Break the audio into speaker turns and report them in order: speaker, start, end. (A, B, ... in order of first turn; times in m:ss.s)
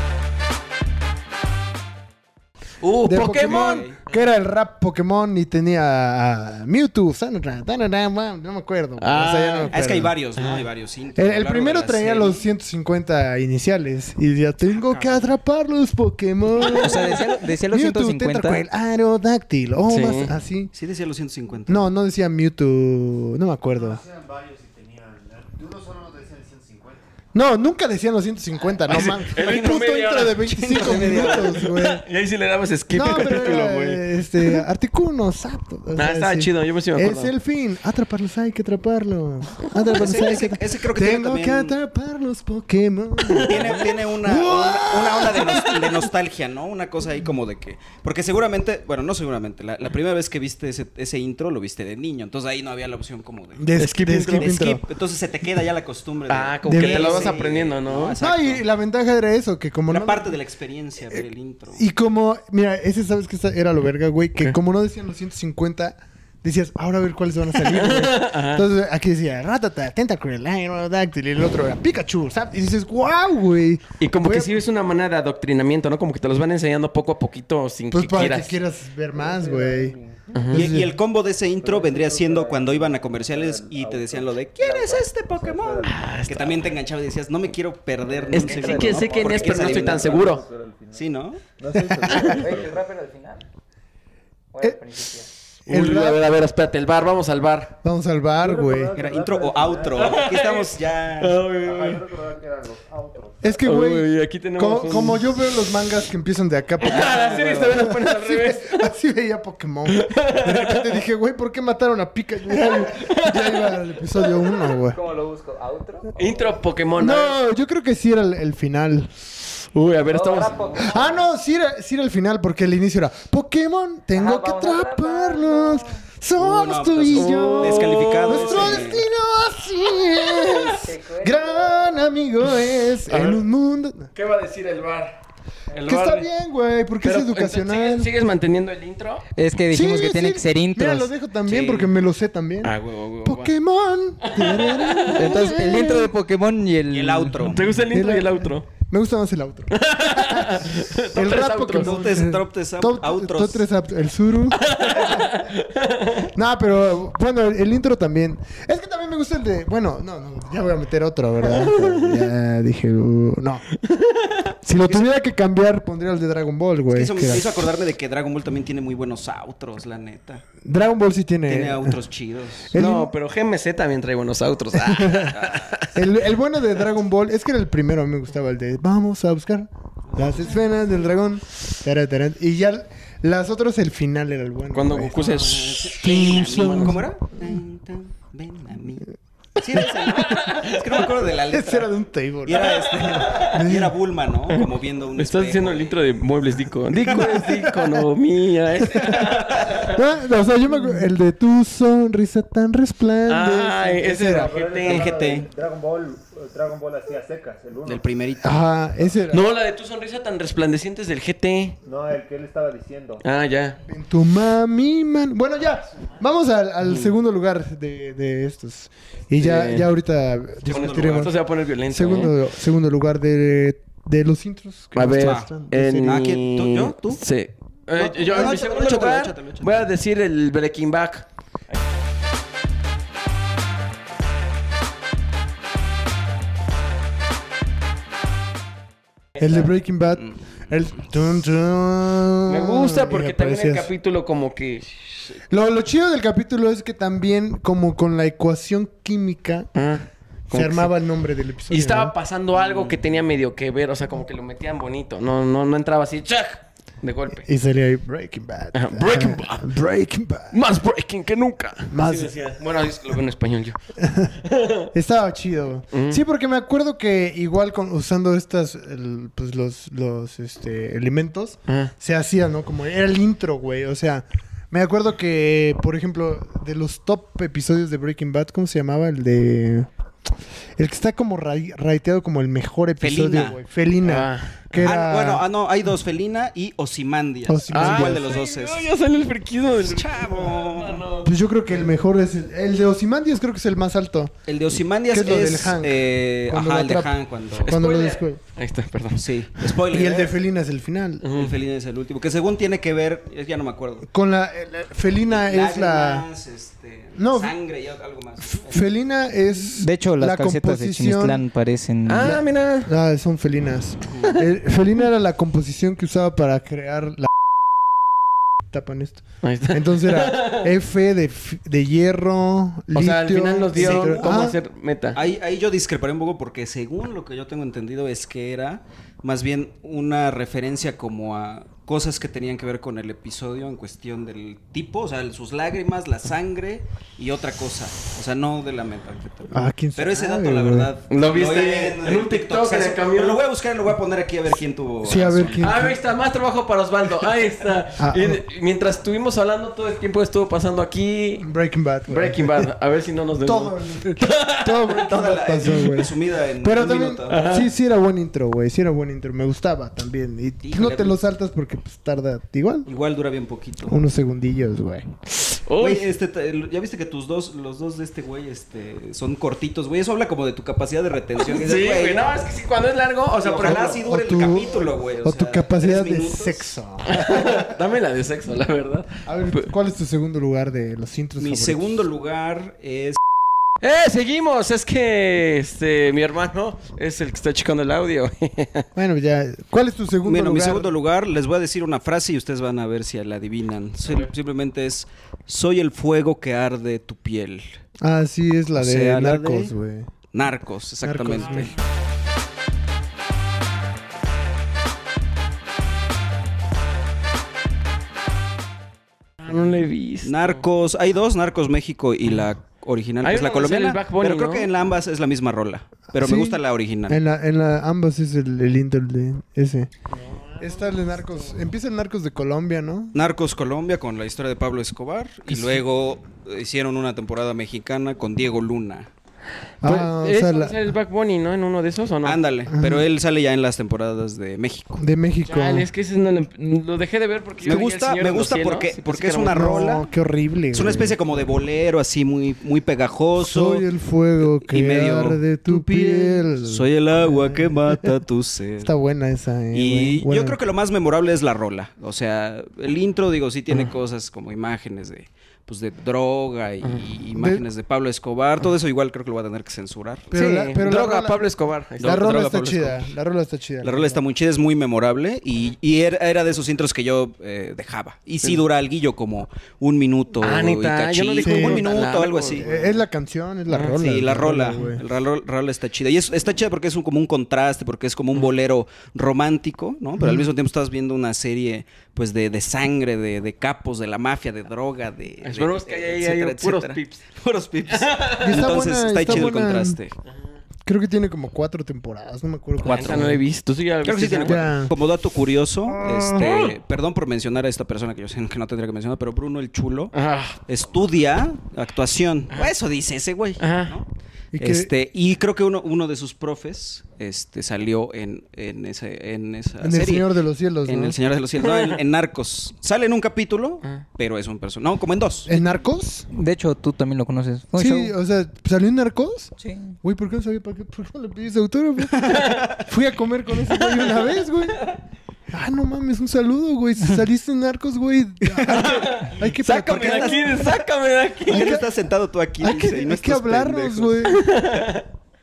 0:02.8-0:03.9 A
0:03.0-0:10.1 B
0:03.4-0:04.0 C
0:09.0-0:09.7 A
0:09.7-0:12.4 C
0:10.4-0:10.6 A
0:11.2-0:20.7 B
0:16.7-0:18.6 D
0:19.9-0:20.3 A
0:20.7-0:21.9 C
0:21.7-0:24.0 B
0:25.3-0:26.6 E
0:27.3-0:32.0 B
0:28.9-0:34.6 A
0:29.0-0:31.6 C
0:32.9-0:45.8 B
0:36.0-0:37.3 A
0:39.9-0:41.8 C
0:43.3-0:43.8 A
0:43.4-0:53.7 C
0:53.6-0:54.8 B
0:53.8-0:54.5 A
0:54.3-0:58.6 C
0:56.3-0:58.2 A
0:56.6-0:57.4 B
0:58.2-1:00.4 B
0:59.9-1:01.8 C
1:01.7-1:14.6 B
1:07.7-1:08.6 A
1:14.0-1:18.5 A
1:17.9-1:20.0 B
1:19.1-1:20.5 E
1:20.3-1:20.6 A
1:20.5-1:20.9 B
1:20.5-1:30.3 C
1:21.6-1:26.1 E
1:24.6-1:25.0 D
1:25.8-1:26.6 A
1:28.1-1:32.8 E
1:28.3-1:29.7 D
1:28.3-1:30.4 A
1:30.9-1:31.4 C
1:31.8-1:32.3 B
1:32.3-1:33.4 D
1:34.5-1:35.3 D
1:35.7-1:36.2 B
1:35.7-1:37.8 A
1:37.8-1:38.9 B
1:38.4-1:40.2 E
1:39.0-1:41.4 C
1:40.0-1:42.0 A
1:41.6-1:43.6 E
1:43.4-1:55.0 B
1:43.6-1:45.3 A
1:46.8-1:48.8 A
1:46.9-1:47.3 C
1:49.9-1:50.9 A
1:52.5-1:54.5 A
1:54.9-1:56.5 D
1:56.2-1:57.4 A
1:57.0-1:59.1 B
1:59.7-2:00.9 A
2:00.1-2:01.2 D
2:00.8-2:14.1 B
2:04.1-2:06.0 D
2:06.4-2:09.0 C
2:07.1-2:08.8 A
2:10.7-2:12.0 D
2:13.1-2:13.4 A
2:14.1-2:15.2 A
2:15.7-2:16.3 A
2:15.8-2:18.1 B
2:17.0-2:19.2 A
2:19.4-2:21.1 D
2:19.7-2:26.1 B
2:21.5-2:21.9 C
2:22.6-2:23.5 A
2:24.2-2:25.5 A
2:25.1-2:27.5 D
2:26.9-2:27.7 C
2:27.4-2:28.7 A
2:27.9-2:35.3 B
2:29.7-2:32.1 A
2:31.8-2:33.6 C
2:34.6-2:36.3 A
2:36.3-2:43.6 B
2:41.5-2:42.2 A
2:43.8-2:44.5 A
2:44.6-2:47.5 B
2:46.9-2:50.4 C
2:50.6-2:52.0 B
2:51.5-2:52.7 C
2:52.7-2:53.1 B
2:52.8-2:55.9 A
2:54.8-2:55.3 B
2:55.3-2:55.6 C
2:55.9-3:07.6 B
3:00.1-3:00.6 C
3:04.7-3:07.0 A
3:05.8-3:11.9 C
3:09.7-3:10.6 B
3:10.2-3:10.8 A
3:11.5-3:14.0 B
3:12.4-3:16.0 C
3:13.0-3:13.6 A
3:14.5-3:20.0 A
3:17.0-3:18.0 B
3:17.1-3:17.4 C
3:19.8-3:24.5 B
3:23.3-3:25.1 A
3:24.2-3:28.1 E
3:24.8-3:25.5 C
3:27.8-3:28.6 C
3:28.4-3:29.5 B
3:29.3-3:31.8 A
3:31.8-3:33.2 E
3:33.2-3:33.8 A
3:33.9-3:41.4 B
3:39.4-3:39.9 A
3:40.7-3:41.3 C
3:40.7-3:42.3 A
3:41.9-3:46.2 B
3:44.9-3:51.8 A
3:45.2-3:47.2 C
3:48.0-3:49.9 C
3:48.3-3:48.6 B
3:59.4-4:03.9 B
4:02.5-4:05.1 A
4:05.5-4:09.7 B
4:09.7-4:10.9 A
4:10.5-4:12.1 B
4:11.7-4:17.4 A
4:17.4-4:20.6 B
4:18.7-4:19.7 A
4:20.5-4:23.8 A
4:21.9-4:22.3 B
4:24.0-4:24.3 B
4:24.4-4:24.9 A
4:24.9-4:39.9 B
4:25.9-4:26.2 A
4:31.7-4:31.9 A
4:40.8-4:45.4 B
4:43.0-4:43.6 C
4:44.0-4:44.6 A
4:44.8-4:48.9 C
4:47.5-4:48.4 B
4:47.7-4:51.3 A
4:49.8-4:51.0 C
4:51.2-4:54.3 B
4:54.5-4:57.8 C
4:55.1-4:57.1 B
4:57.6-4:59.2 A
4:57.7-4:58.4 B
4:59.1-5:00.4 C
4:59.9-5:01.3 B
5:01.2-5:01.5 A
5:01.3-5:04.1 C
5:04.1-5:06.2 B
5:05.3-5:08.8 C
5:07.2-5:07.5 B
5:08.4-5:11.4 B
5:09.8-5:12.4 D
5:12.0-5:12.9 A
5:12.2-5:17.3 B
5:18.7-5:24.6 B
5:19.4-5:20.7 A
5:22.9-5:25.2 A
5:23.7-5:24.5 C
5:25.1-5:45.8 C
5:39.5-5:40.9 B
5:41.1-5:43.4 A
5:45.0-5:46.0 B
5:45.6-5:51.4 A
5:48.0-5:48.4 B
5:51.4-5:52.7 B
5:52.1-5:54.8 A
5:53.4-6:02.9 B
5:54.9-5:57.6 C
5:57.3-5:57.7 A
6:00.6-6:01.2 C
6:02.8-6:04.0 C
6:03.9-6:05.2 B
6:05.4-6:06.1 A
6:05.8-6:12.3 C
6:11.4-6:14.1 A
6:13.4-6:16.7 C
6:13.7-6:17.7 B
6:17.1-6:19.6 A
6:19.2-6:22.0 B
6:21.4-6:23.2 C
6:23.8-6:28.9 A
6:29.0-6:30.9 B
6:30.2-6:37.8 C
6:38.0-6:40.1 B
6:38.7-6:39.7 C
6:40.3-6:41.7 C
6:41.0-6:41.7 B
6:49.4-6:50.6 A
6:50.2-6:57.2 C
6:53.2-6:54.7 A
6:56.1-6:59.9 B
7:00.1-7:00.8 A
7:00.6-7:03.2 B
7:03.1-7:09.1 C
7:05.5-7:05.8 B
7:09.8-7:10.9 B
7:09.8-7:12.4 A
7:12.2-7:15.0 C
7:12.7-7:13.0 B
7:15.0-7:15.9 B
7:15.4-7:19.7 A
7:17.6-7:20.1 C
7:19.5-7:21.1 B
7:20.7-7:23.8 C
7:23.4-7:28.1 B
7:24.4-7:28.9 C
7:28.8-7:30.6 B
7:29.7-7:40.3 C
7:37.4-7:37.6 B
7:40.3-7:41.5 B
7:40.3-7:43.0 A
7:42.0-7:44.2 B
7:43.8-7:52.7 C
7:50.4-7:52.9 A
7:51.4-7:51.9 B
7:52.6-7:55.0 B
7:53.7-7:54.0 A
7:54.0-8:10.2 C
8:00.2-8:00.5 B
8:05.4-8:07.2 A
8:07.9-8:08.7 A
8:08.4-8:10.0 B
8:10.8-8:13.4 B
8:12.8-8:14.6 A
8:14.0-8:20.1 C
8:14.4-8:14.9 B
8:16.0-8:16.4 B
8:16.4-8:16.6 A
8:20.1-8:20.6 A
8:20.7-8:30.3 C
8:23.6-8:24.0 A
8:24.5-8:24.9 B
8:29.8-8:31.2 B
8:30.8-8:35.5 C
8:31.6-8:32.0 A
8:35.4-8:36.3 B
8:36.3-8:38.1 D
8:37.7-8:42.2 B
8:39.6-8:39.9 D
8:42.1-8:42.8 C
8:42.3-8:42.6 A
8:42.8-8:44.8 B
8:43.7-8:44.3 A
8:45.5-8:50.6 B
8:48.7-8:51.8 A
8:50.0-8:50.8 C
8:51.4-8:54.3 C
8:51.5-8:51.8 B
8:52.6-8:54.4 B
8:54.3-8:55.0 A